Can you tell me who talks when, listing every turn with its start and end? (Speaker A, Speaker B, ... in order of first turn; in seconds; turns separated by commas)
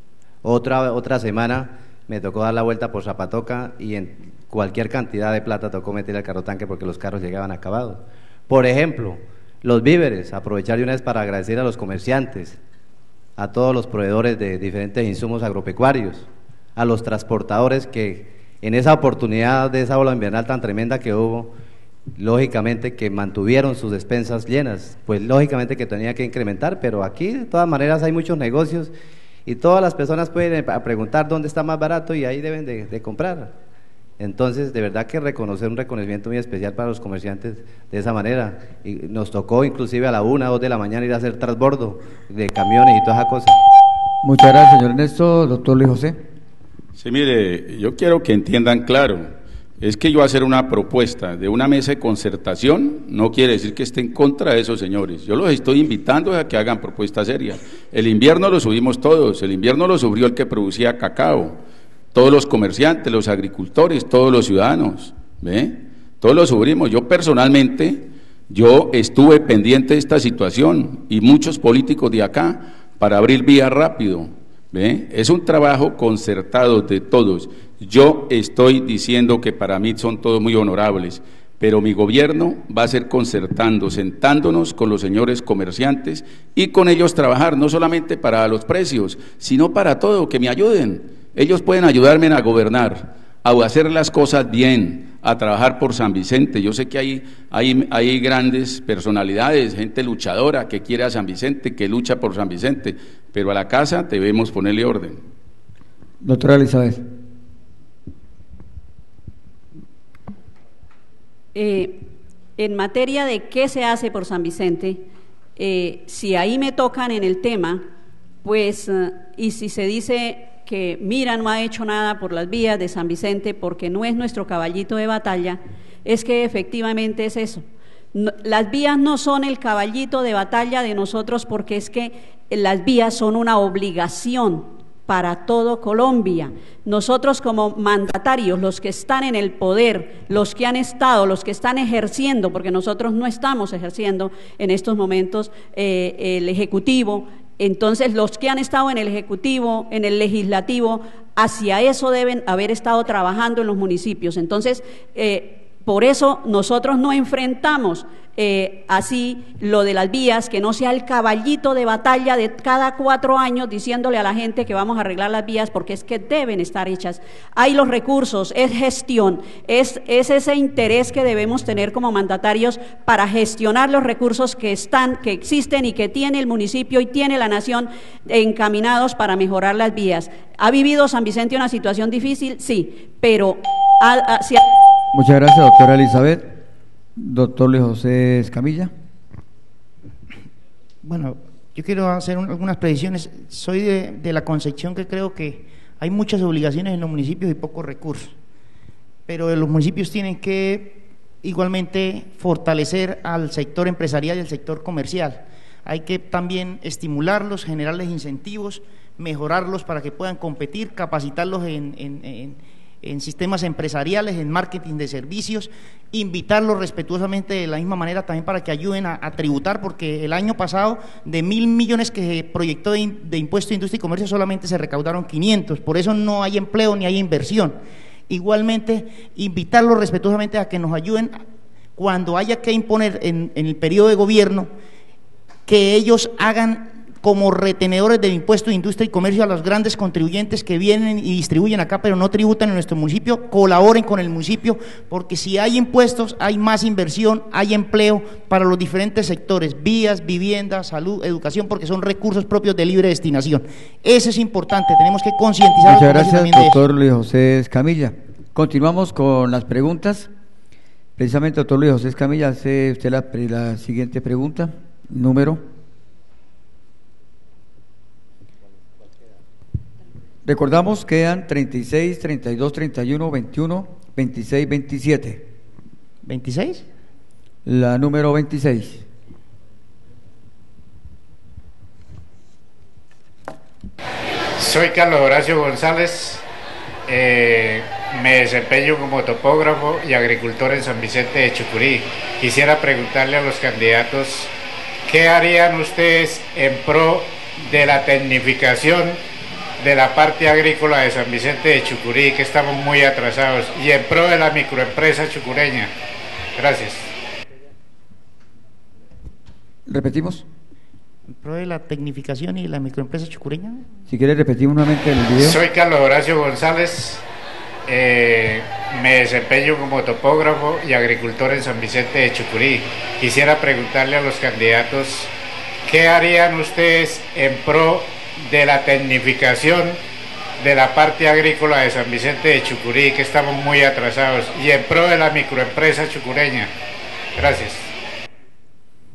Speaker A: 0.4-12.6, Speaker A: 13.4-21.5, Speaker A: 22.2-28.9, Speaker A: 29.5-33.5, Speaker A: 34.2-43.6, Speaker B: 44.2-46.2, Speaker C: 47.0-49.3, Speaker C: 49.8-61.6, Speaker C: 62.1-105.2, Speaker B: 106.2-107.0, Speaker D: 111.5-112.1, Speaker D: 112.6-115.0, Speaker D: 115.6-117.8, Speaker D: 118.4-184.6, Speaker B: 185.1-186.6, Speaker B: 187.2-188.9, Speaker E: 191.0-198.3, Speaker E: 199.3-227.8, Speaker E: 228.3-231.3, Speaker E: 232.0-234.7, Speaker E: 235.7-256.8, Speaker B: 255.9-260.3, Speaker B: 261.2-265.6, Speaker B: 270.4-275.4, Speaker E: 276.2-276.9, Speaker B: 277.6-279.1, Speaker F: 284.6-286.4, Speaker F: 287.1-294.5, Speaker F: 295.1-299.2, Speaker F: 299.8-305.9, Speaker F: 306.6-307.1, Speaker B: 309.9-310.4, Speaker E: 311.3-313.8, Speaker B: 314.1-315.6, Speaker F: 315.4-317.2, Speaker F: 317.9-325.3, Speaker F: 325.9-330.0, Speaker F: 330.6-336.7, Speaker F: 337.4-337.9